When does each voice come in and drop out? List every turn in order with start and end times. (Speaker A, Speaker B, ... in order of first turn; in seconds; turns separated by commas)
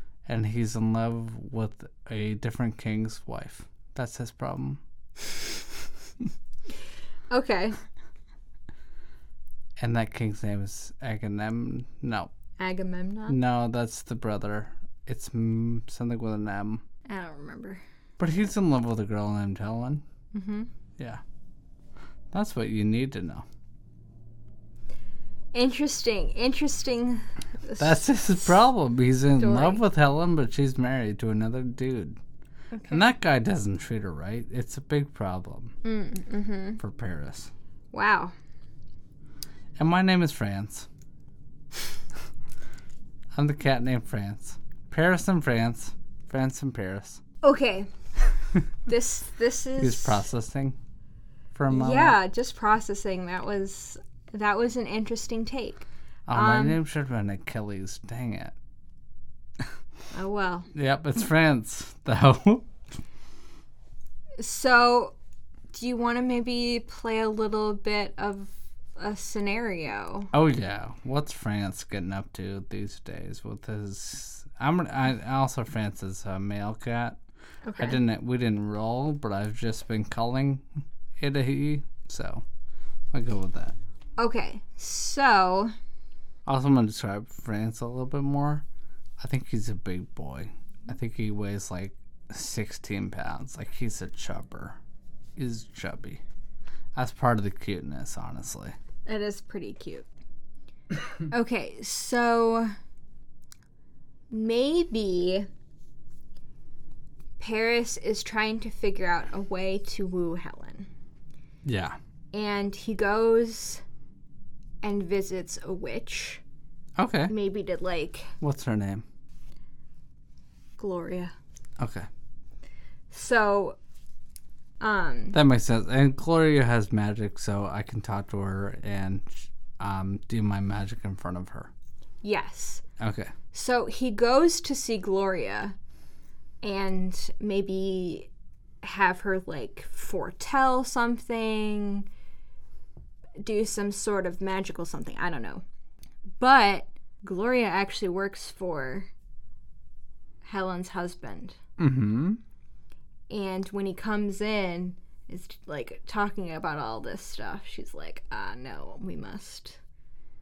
Speaker A: 0.2-4.8, Speaker B: 7.3-7.8, Speaker A: 9.8-12.3, Speaker B: 12.6-13.4, Speaker A: 13.3-16.8, Speaker B: 17.1-17.8, Speaker A: 18.2-20.0, Speaker B: 20.3-20.7, Speaker A: 22.3-23.4, Speaker B: 25.5-28.1, Speaker A: 27.8-32.2, Speaker B: 29.4-29.8, Speaker B: 32.7-33.1, Speaker A: 32.9-35.7, Speaker B: 35.8-36.8, Speaker A: 36.8-37.5, Speaker B: 37.9-38.3, Speaker A: 39.8-40.9, Speaker A: 43.3-47.2, Speaker B: 47.4-47.9, Speaker B: 48.9-50.2, Speaker A: 49.8-50.8, Speaker A: 51.5-52.2, Speaker B: 51.7-56.8, Speaker A: 56.3-58.5, Speaker B: 60.1-60.7, Speaker A: 60.7-62.7, Speaker B: 64.4-65.1, Speaker B: 65.7-70.3, Speaker A: 70.3-77.2, Speaker B: 77.6-78.0, Speaker A: 77.8-82.4, Speaker A: 83.1-83.8, Speaker B: 84.2-85.7, Speaker A: 86.5-88.6, Speaker A: 89.2-94.8, Speaker A: 95.3-96.2, Speaker A: 97.0-98.7, Speaker B: 99.0-100.1, Speaker B: 101.3-102.7, Speaker B: 104.3-105.5, Speaker B: 107.4-110.9, Speaker A: 111.6-112.0, Speaker B: 112.3-113.8, Speaker B: 114.8-116.4, Speaker A: 117.0-117.3, Speaker B: 117.3-118.3, Speaker A: 118.4-119.0, Speaker B: 120.8-121.3, Speaker A: 121.8-122.1, Speaker B: 123.1-123.8, Speaker B: 124.8-125.4, Speaker A: 125.3-131.7, Speaker B: 132.2-132.8, Speaker A: 133.0-133.3, Speaker B: 133.5-135.8, Speaker B: 136.6-138.3, Speaker B: 138.8-142.1, Speaker B: 143.4-145.6, Speaker B: 146.4-149.1, Speaker B: 150.4-151.6, Speaker A: 151.8-152.4, Speaker B: 153.3-159.8